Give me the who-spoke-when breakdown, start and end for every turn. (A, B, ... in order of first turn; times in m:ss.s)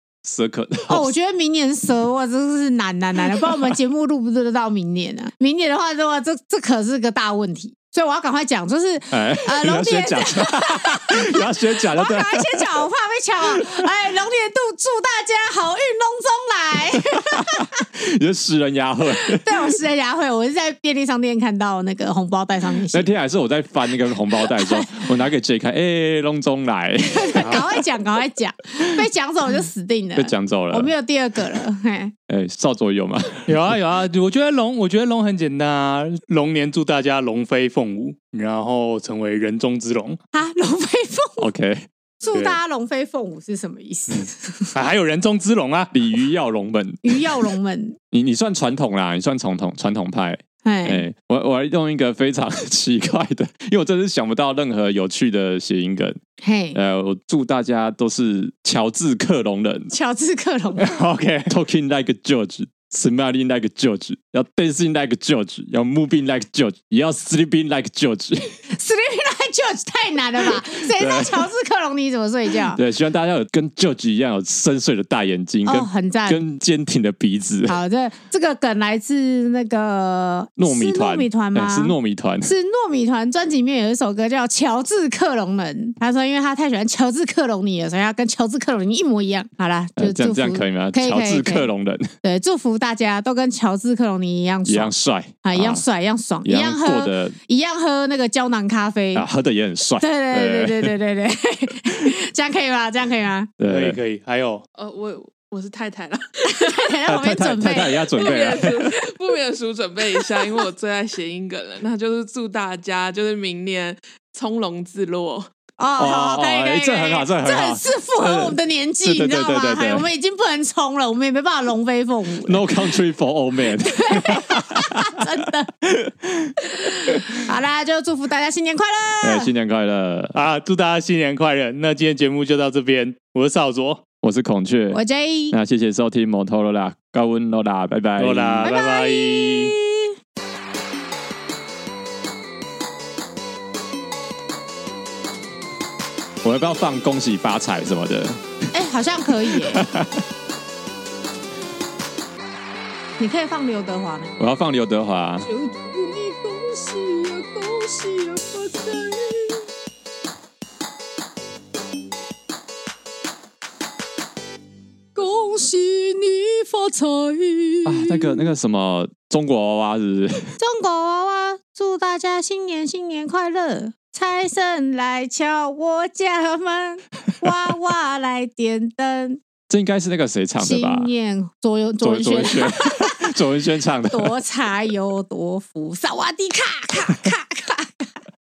0:00.2-0:01.1 A
0:00.9-0:17.8 B
0:03.3-0:03.6 A
0:09.1-0:12.8 A
0:17.2-0:19.7 A
0:19.3-0:23.1 B
0:22.9-0:27.8 A
0:24.3-0:25.0 B
0:27.1-0:32.1 B
0:30.2-0:30.9 A
0:32.3-0:33.6 A
0:33.5-0:40.2 C
0:40.3-0:41.5 B
0:41.4-0:42.6 A
0:42.2-0:44.8 B
0:44.8-0:45.9 C
0:45.9-0:47.5 A
0:47.0-0:48.0 B
0:48.1-0:56.2 A
0:50.6-0:51.1 B
0:56.4-0:56.8 B
0:56.7-0:59.9 A
0:59.9-1:00.9 B
1:00.8-1:01.5 C
1:01.5-1:08.6 A
1:08.7-1:12.8 B
1:10.4-1:11.5 A
1:12.7-1:17.8 A
1:15.6-1:16.4 B
1:17.7-1:31.7 B
1:20.6-1:22.5 A
1:30.0-1:32.1 A
1:32.2-1:34.9 B
1:34.6-1:35.8 A
1:35.4-1:39.3 B
1:36.4-1:37.4 A
1:39.2-1:40.9 A
1:40.0-1:43.5 B
1:43.6-1:44.0 A
1:43.7-1:44.6 C
1:44.8-1:46.8 D
1:46.5-1:48.1 B
1:47.1-1:49.0 A
1:48.1-1:55.5 D
1:55.8-2:02.8 B
1:56.0-2:00.1 A
2:02.4-2:05.2 A
2:03.8-2:05.7 B
2:05.8-2:07.2 A
2:06.7-2:09.5 B
2:09.2-2:10.4 A
2:10.3-2:14.0 C
2:14.2-2:15.0 A
2:14.9-2:15.6 B
2:15.5-2:18.6 A
2:18.2-2:19.7 C
2:18.6-2:20.1 B
2:26.4-2:28.4 A
2:28.7-2:29.9 B
2:29.6-2:30.2 A
2:33.2-2:34.4 B
2:34.4-2:35.5 A
2:35.4-2:39.7 B
2:45.2-2:48.5 B
2:47.9-2:50.6 A
2:50.6-2:59.4 B
2:59.7-3:01.1 A
3:00.6-3:03.4 B
3:02.0-3:04.3 A
3:04.1-3:08.1 B